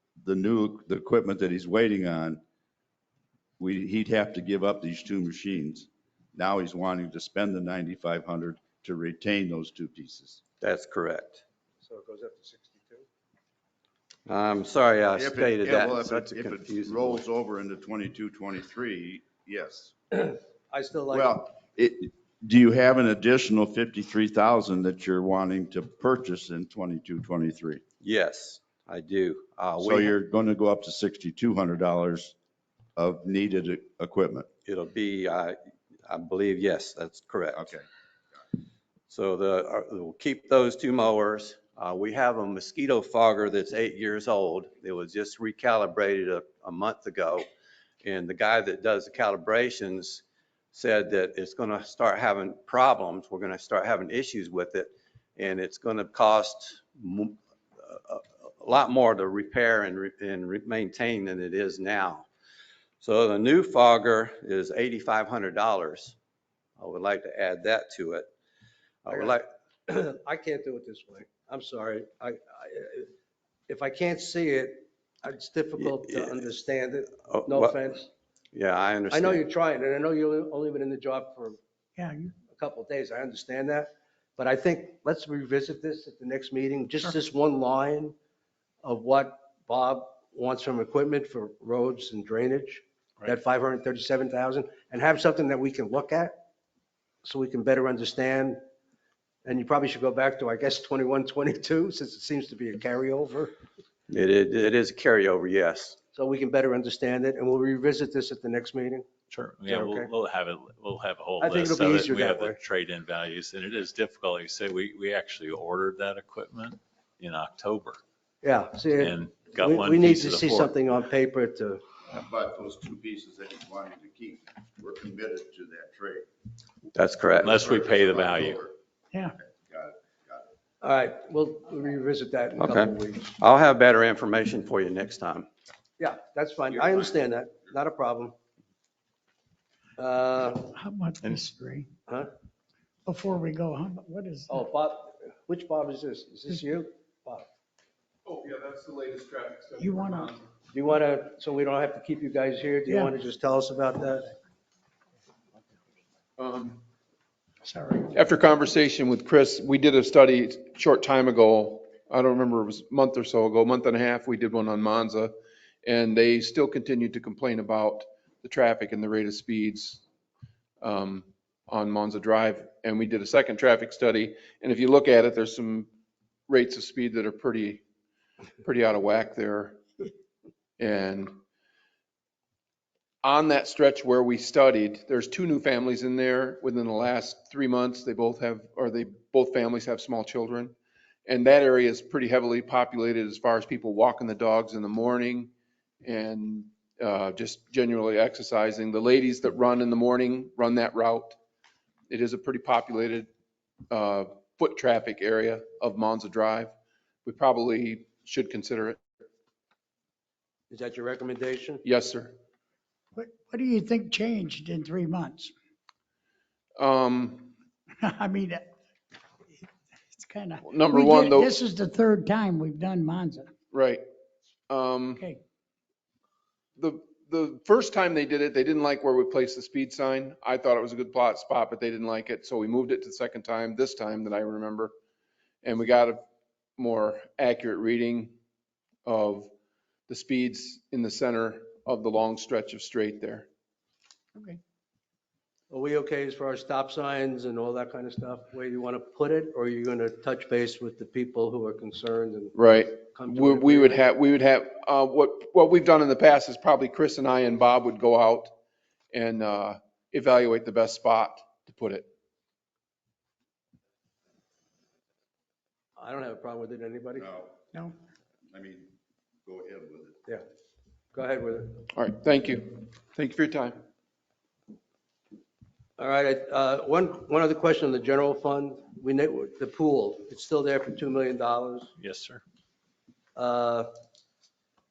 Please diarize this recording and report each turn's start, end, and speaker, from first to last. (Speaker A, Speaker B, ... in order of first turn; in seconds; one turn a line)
Speaker A: 0.2-2.4
Speaker A: 3.6-10.4
Speaker B: 10.6-11.4
Speaker C: 11.8-13.0
Speaker B: 14.2-17.2
Speaker A: 15.2-19.9
Speaker C: 20.1-21.3
Speaker A: 21.1-27.8
Speaker B: 28.0-30.1
Speaker A: 29.8-32.3
Speaker A: 33.0-34.5
Speaker B: 34.6-35.6
Speaker B: 36.1-37.7
Speaker A: 37.5-37.8
Speaker B: 39.1-47.5
Speaker B: 48.0-62.3
Speaker B: 63.0-66.2
Speaker B: 66.8-68.3
Speaker B: 69.0-69.5
Speaker C: 69.9-73.1
Speaker C: 73.7-78.1
Speaker B: 75.8-76.4
Speaker B: 77.2-77.8
Speaker B: 78.5-79.4
Speaker C: 79.1-81.6
Speaker D: 82.0-82.3
Speaker C: 82.5-88.1
Speaker C: 88.8-96.3
Speaker C: 97.2-98.6
Speaker C: 99.4-103.5
Speaker B: 104.1-106.0
Speaker C: 106.1-109.0
Speaker E: 109.3-118.0
Speaker C: 109.7-110.1
Speaker C: 111.4-112.6
Speaker C: 118.4-121.8
Speaker E: 119.0-120.6
Speaker A: 122.1-126.2
Speaker B: 126.9-127.6
Speaker E: 127.4-128.6
Speaker A: 127.4-128.7
Speaker A: 129.6-130.5
Speaker C: 130.8-133.3
Speaker B: 132.6-135.5
Speaker C: 136.0-138.3
Speaker C: 140.0-140.7
Speaker D: 140.6-141.9
Speaker D: 143.1-144.6
Speaker C: 144.5-147.5
Speaker F: 148.2-150.4
Speaker D: 149.8-150.3
Speaker C: 150.7-154.3
Speaker D: 152.9-153.1
Speaker F: 156.4-156.8
Speaker D: 157.6-158.1
Speaker F: 158.1-165.3
Speaker F: 165.8-170.0
Speaker F: 170.8-175.9
Speaker F: 176.5-177.8
Speaker F: 178.6-179.8
Speaker F: 180.8-181.3
Speaker F: 183.2-195.5
Speaker F: 196.0-201.4
Speaker F: 202.1-203.3
Speaker F: 203.9-206.7
Speaker F: 207.2-209.0
Speaker C: 210.7-211.8
Speaker F: 211.8-212.3
Speaker D: 213.2-215.5
Speaker F: 216.8-217.5
Speaker D: 218.0-218.7
Speaker D: 220.1-223.5
Speaker F: 220.6-221.5
Speaker F: 223.7-224.0
Speaker F: 224.7-225.2
Speaker F: 226.8-234.9
Speaker F: 235.6-236.2
Speaker F: 236.8-238.3
Speaker F: 239.0-239.5
Speaker F: 240.1-243.5
Speaker C: 245.7-252.5
Speaker F: 252.5-258.5
Speaker C: 253.1-254.1
Speaker F: 259.1-262.1
Speaker C: 266.0-267.3
Speaker A: 267.2-267.8
Speaker A: 268.5-268.9
Speaker A: 269.4-270.2
Speaker C: 271.1-271.8
Speaker F: 271.9-273.8
Speaker C: 276.0-281.9
Speaker E: 282.0-282.4
Speaker C: 283.4-283.9